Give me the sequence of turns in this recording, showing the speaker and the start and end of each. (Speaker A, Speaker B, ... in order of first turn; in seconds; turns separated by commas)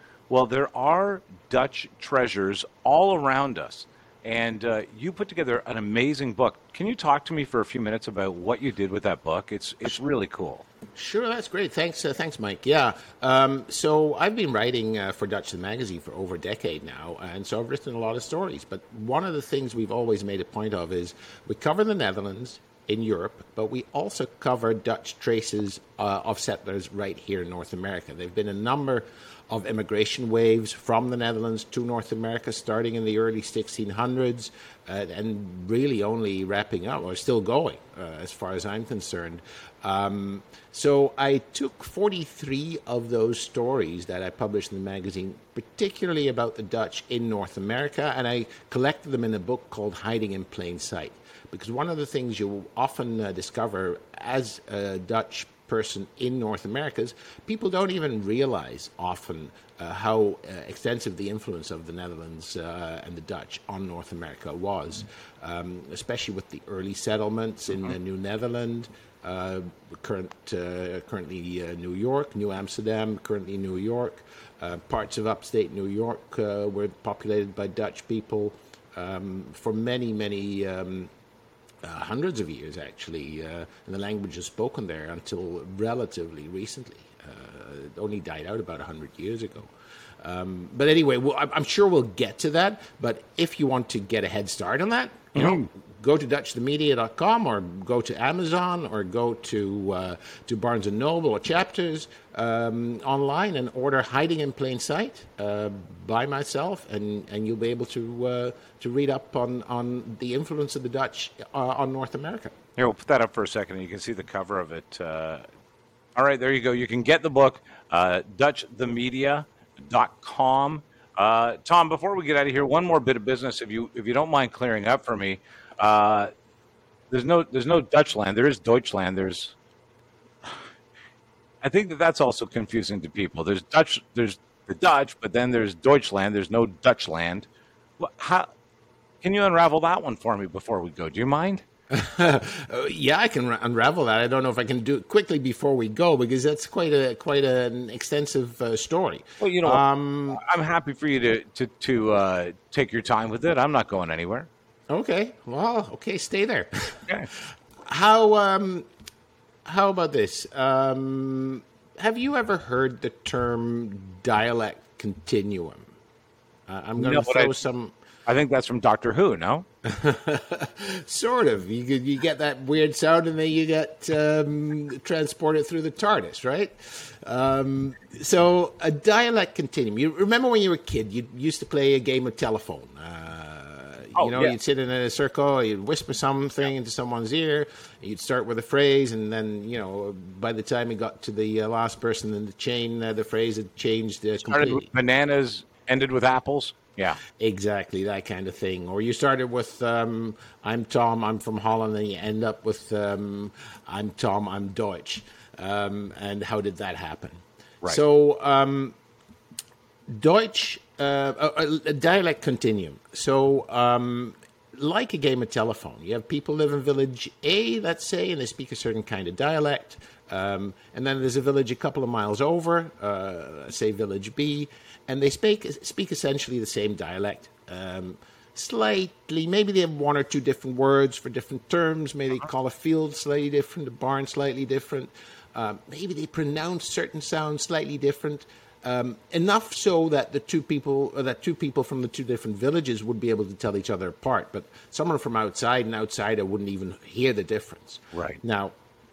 Speaker A: 0.3-10.6, Speaker B: 10.9-81.1, Speaker B: 81.8-112.5, Speaker A: 95.3-95.7, Speaker A: 112.8-115.5, Speaker A: 116.2-126.3, Speaker A: 127.1-129.5, Speaker A: 131.6-137.5, Speaker A: 138.0-138.5, Speaker A: 139.2-141.6, Speaker B: 141.9-150.4, Speaker A: 149.4-154.5, Speaker B: 154.9-158.9, Speaker B: 159.6-165.9, Speaker B: 166.7-167.9, Speaker A: 167.0-167.6, Speaker A: 168.2-169.7, Speaker B: 169.8-194.9, Speaker A: 184.1-184.5, Speaker A: 194.5-197.2, Speaker B: 197.4-208.9, Speaker B: 210.1-248.7, Speaker A: 248.1-248.4